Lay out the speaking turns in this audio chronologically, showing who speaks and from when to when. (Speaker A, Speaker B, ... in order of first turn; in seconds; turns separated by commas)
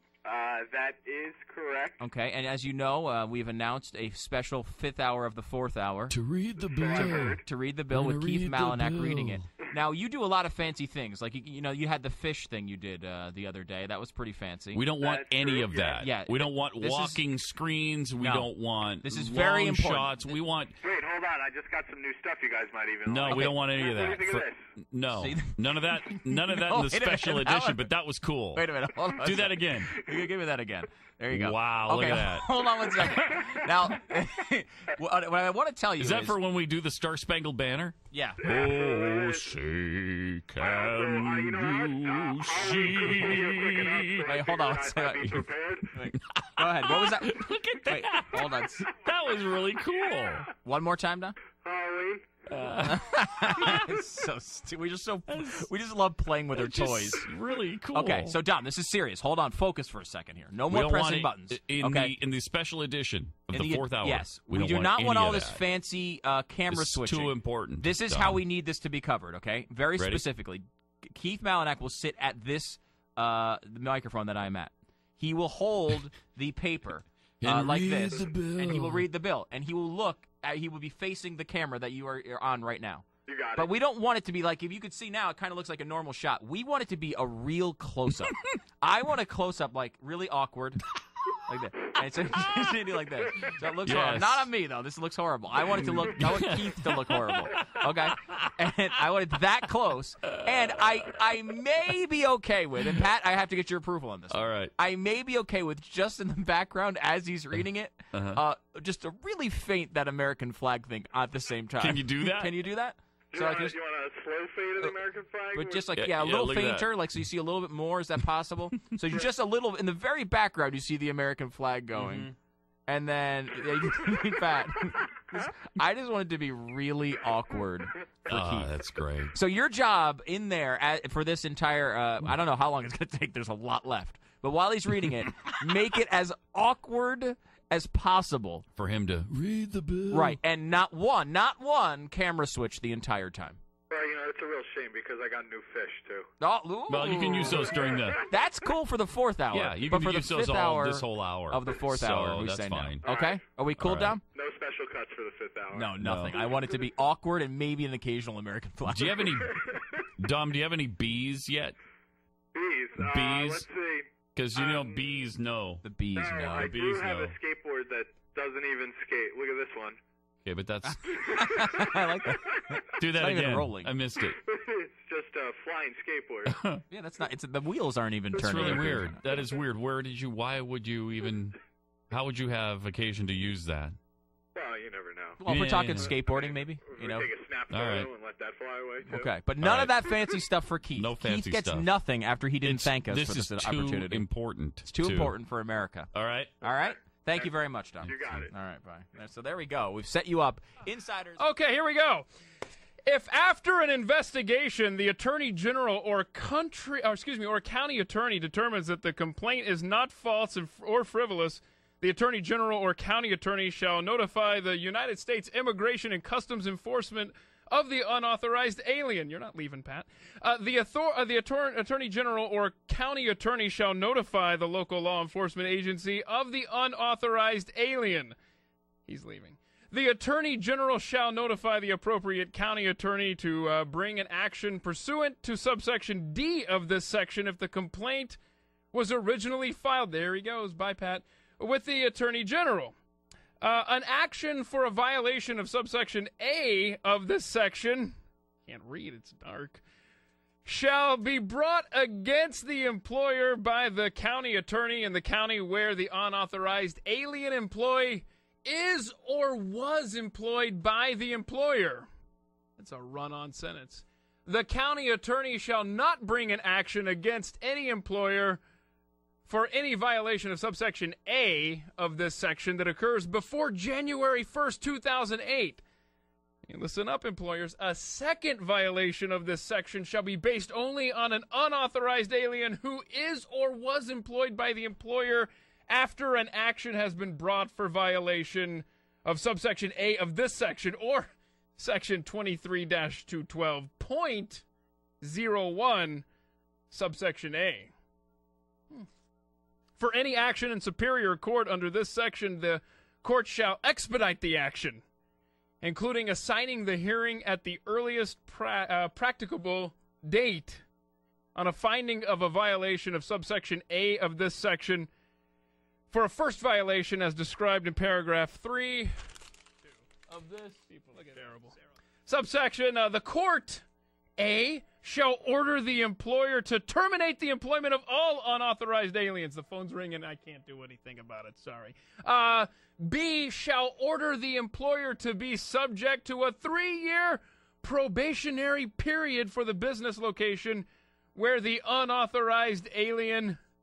Speaker A: 0.2-2.0, Speaker B: 2.0-6.1, Speaker C: 6.1-7.4, Speaker A: 6.7-7.4, Speaker B: 6.9-14.8, Speaker C: 7.9-9.4, Speaker C: 14.7-20.8, Speaker A: 15.0-16.1, Speaker B: 16.0-17.2, Speaker B: 18.2-20.3, Speaker A: 20.8-24.6, Speaker C: 23.1-28.7, Speaker B: 23.3-23.6, Speaker B: 25.1-27.9, Speaker B: 28.5-36.4, Speaker C: 29.2-29.9, Speaker C: 31.3-32.5, Speaker C: 36.0-44.3, Speaker B: 38.1-38.4, Speaker A: 38.4-39.6, Speaker A: 40.6-45.9, Speaker B: 44.3-48.9, Speaker C: 46.4-50.5, Speaker B: 50.6-51.4, Speaker A: 51.6-52.2, Speaker C: 52.5-53.0, Speaker B: 52.8-57.3, Speaker C: 55.3-55.7, Speaker C: 56.6-58.4, Speaker B: 57.9-62.1, Speaker C: 60.7-65.6, Speaker B: 63.5-113.8, Speaker C: 66.7-68.4, Speaker C: 70.0-70.3, Speaker C: 77.4-79.1, Speaker A: 83.3-83.7, Speaker C: 93.9-94.5, Speaker C: 95.8-98.5, Speaker C: 104.3-104.7, Speaker C: 108.1-108.4, Speaker C: 111.8-112.6, Speaker A: 113.3-115.8, Speaker B: 115.5-122.3, Speaker C: 115.9-116.9, Speaker C: 122.0-122.3, Speaker B: 122.9-128.7, Speaker C: 128.3-129.3, Speaker B: 129.3-138.7, Speaker C: 138.8-140.4, Speaker B: 140.1-143.6, Speaker A: 143.9-146.3, Speaker B: 146.4-154.2, Speaker C: 146.9-148.2, Speaker A: 147.5-148.2, Speaker C: 149.5-153.0, Speaker A: 153.0-153.4, Speaker C: 153.8-154.2, Speaker A: 154.3-156.6, Speaker B: 155.7-159.4, Speaker C: 156.0-156.4, Speaker C: 158.8-161.8, Speaker A: 162.5-164.1, Speaker C: 163.0-163.7, Speaker C: 164.3-165.8, Speaker A: 164.7-165.0, Speaker B: 165.8-166.8, Speaker A: 166.2-170.0, Speaker C: 166.5-167.4, Speaker C: 170.4-171.1, Speaker B: 170.8-173.9, Speaker A: 171.4-172.3, Speaker C: 173.0-174.4, Speaker A: 174.2-176.6, Speaker C: 176.5-176.8, Speaker B: 176.9-179.2, Speaker C: 178.4-181.6, Speaker A: 178.5-179.4, Speaker C: 182.1-184.0, Speaker A: 184.6-185.4, Speaker B: 185.4-187.3, Speaker C: 185.4-186.1, Speaker A: 186.0-189.3, Speaker C: 187.7-188.1, Speaker B: 189.1-194.3, Speaker C: 189.6-190.1, Speaker C: 191.0-191.9, Speaker C: 192.6-195.4, Speaker B: 194.8-201.5, Speaker C: 196.1-196.5, Speaker C: 198.0-198.5, Speaker A: 198.0-198.5, Speaker D: 201.4-202.3, Speaker D: 203.1-228.3, Speaker D: 229.1-238.4, Speaker D: 238.9-242.9, Speaker D: 243.6-248.2, Speaker D: 248.7-249.8, Speaker D: 250.7-262.1, Speaker D: 262.8-268.6, Speaker D: 269.5-275.8, Speaker D: 276.7-294.6, Speaker D: 295.2-296.3, Speaker D: 296.9-297.9, Speaker D: 300.0-305.0, Speaker D: 305.8-310.8, Speaker D: 311.6-315.1, Speaker D: 316.1-319.1, Speaker D: 320.2-323.8, Speaker D: 324.4-343.6